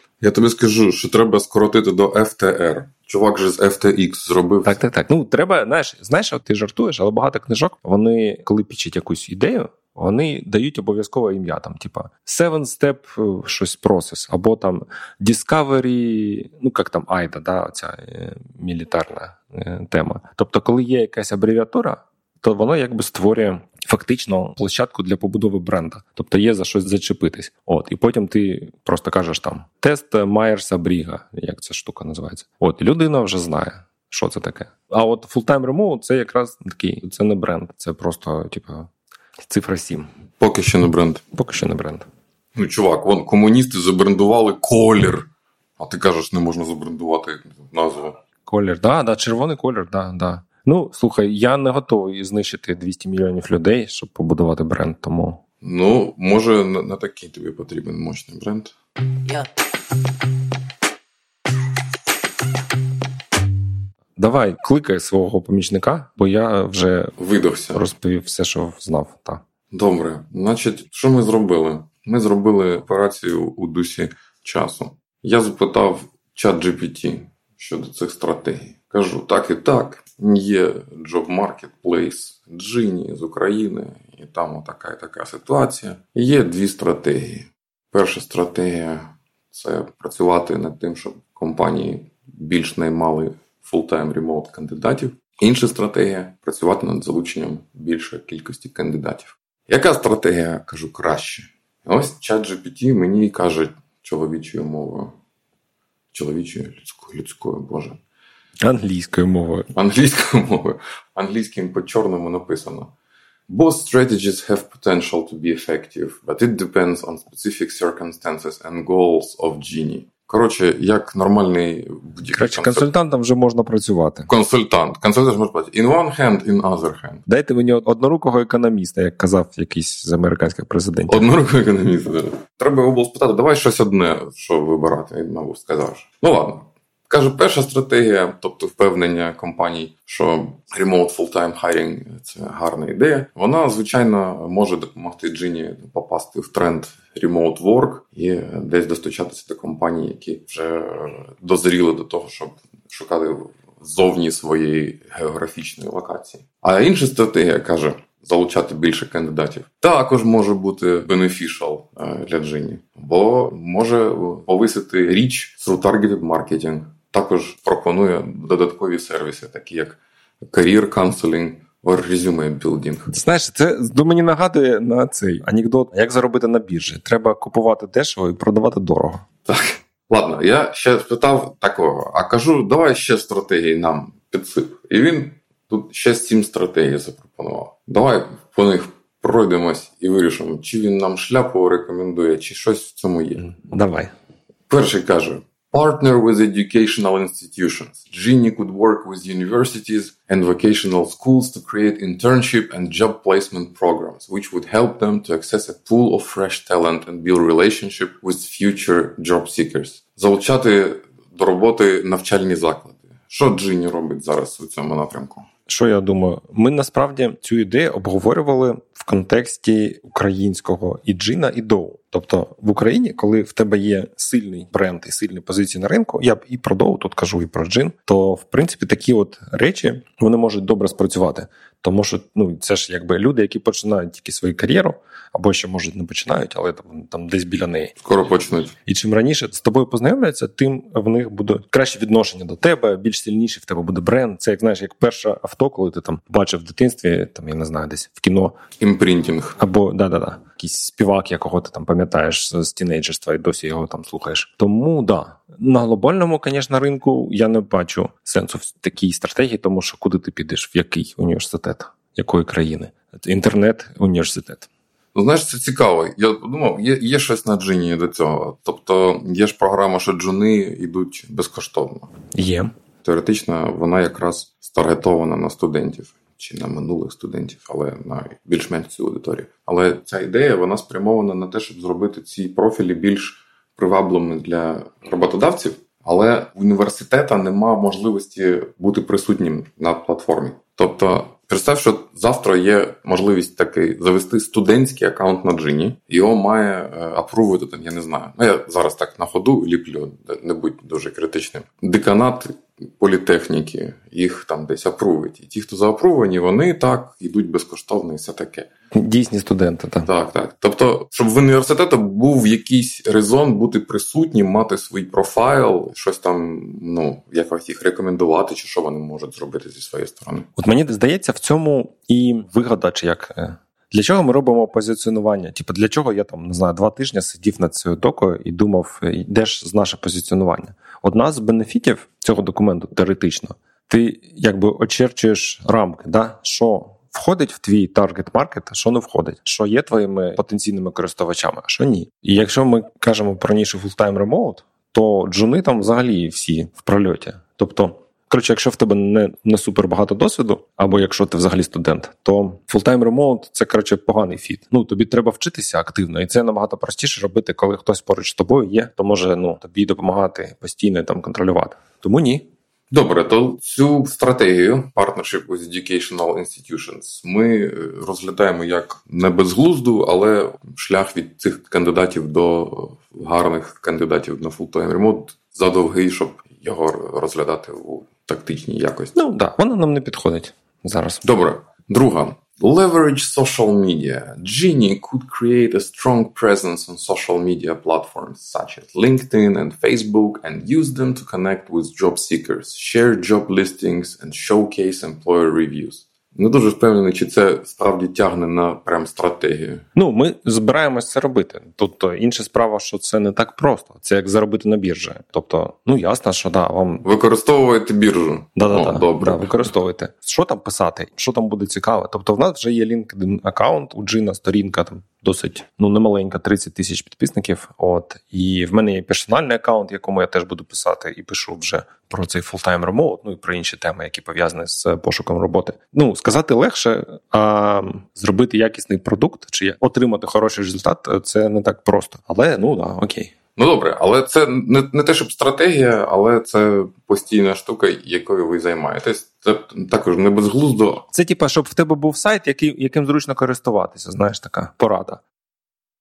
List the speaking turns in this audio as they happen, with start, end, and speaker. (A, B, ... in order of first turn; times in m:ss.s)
0:00.2-0:04.8 A
0:04.6-0:38.9 B
0:39.5-0:40.1 B
0:40.4-0:41.2 A
0:41.3-0:42.1 B
0:42.6-0:48.2 A
0:48.5-0:55.4 B
0:55.6-0:58.7 A
1:04.2-1:07.2 B
1:07.2-1:07.8 A
1:07.7-1:09.4 B
1:09.7-1:45.1 A
1:46.1-1:48.0 A
1:48.6-1:49.7 B
1:49.8-1:52.9 A
1:53.5-2:02.9 A
2:02.3-2:04.3 B
2:04.3-2:07.2 A
2:07.3-2:11.3 B
2:11.1-2:53.2 A
2:53.1-2:59.2 B
2:59.5-3:13.5 A
3:13.5-3:14.1 B
3:14.7-3:35.5 A
3:35.7-3:58.0 B
3:58.0-3:58.8 A
3:58.8-4:08.6 B
4:08.8-4:09.6 A
4:09.6-4:24.7 B
4:25.1-4:32.1 A
4:32.3-4:32.7 B
4:33.0-5:08.7 A
5:08.9-5:10.1 B
5:10.1-5:20.5 A
5:20.6-6:02.5 B
6:02.9-6:19.2 A
6:19.2-6:21.2 B
6:21.2-6:39.8 A
6:40.0-6:47.1 B
6:47.0-6:49.7 A
6:48.6-7:13.3 B
7:13.6-7:21.1 A
7:21.1-7:25.2 B